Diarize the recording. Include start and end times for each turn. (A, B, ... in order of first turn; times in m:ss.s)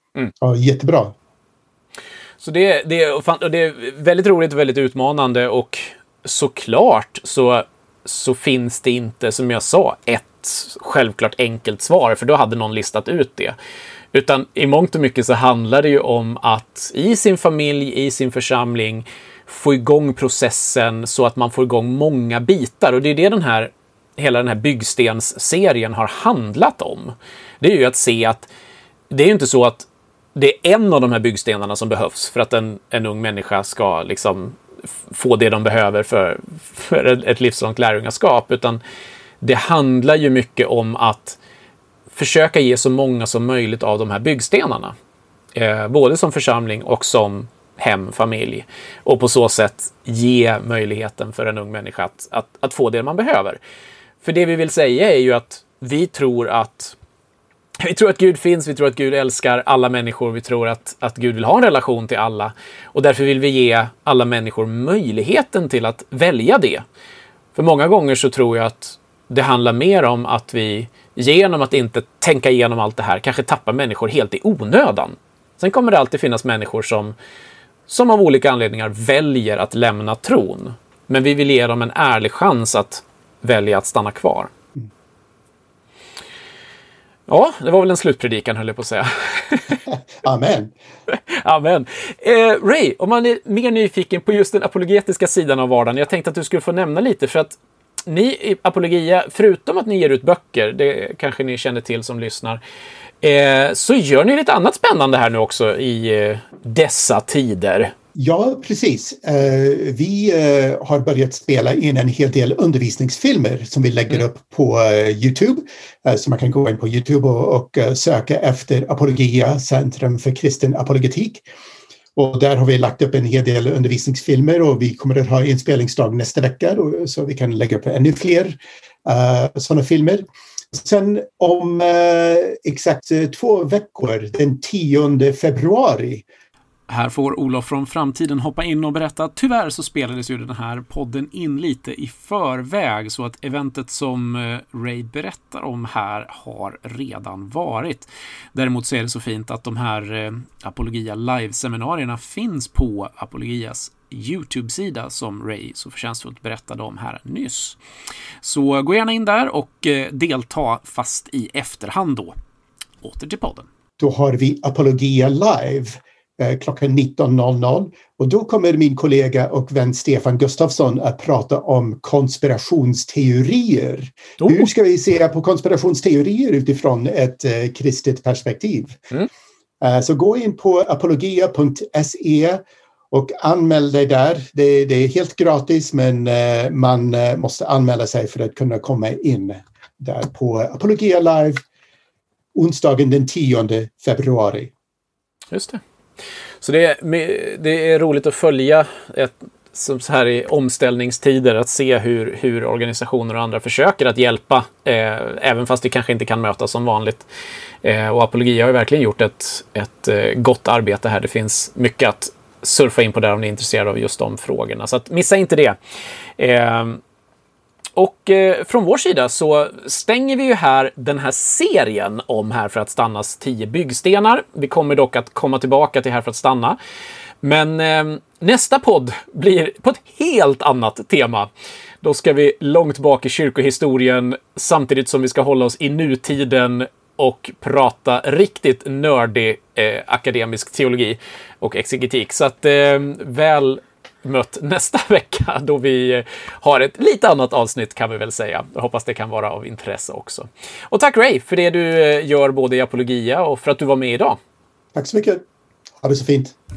0:00.4-0:01.2 A
0:02.4-0:13.6 B
0:14.1-0:28.5 B
0:29.1-0:38.8 B
0:39.4-0:41.4 B
0:42.1-0:44.9 B
0:45.6-0:53.6 B
0:54.2-0:57.0 B
0:57.8-1:06.8 B
1:07.6-1:17.1 B
1:17.9-1:24.5 B
1:27.3-1:29.8 B
1:29.9-1:30.7 A
1:31.1-1:42.6 B
1:43.2-1:47.9 B
1:48.2-2:01.4 A
2:02.2-2:16.2 A
2:16.9-2:37.8 B
2:38.4-2:42.4 B
2:43.0-2:43.7 B
2:44.0-2:59.0 A
2:54.4-2:54.7 B
2:59.8-3:11.6 A
3:12.6-3:14.7 A
3:15.5-3:15.8 B
3:16.6-3:27.3 B
3:27.8-3:35.8 B
3:36.4-3:37.0 B
3:38.0-3:46.8 B
3:47.4-3:51.5 B
3:52.0-4:14.4 B
4:15.0-4:15.4 A
4:16.0-4:16.6 A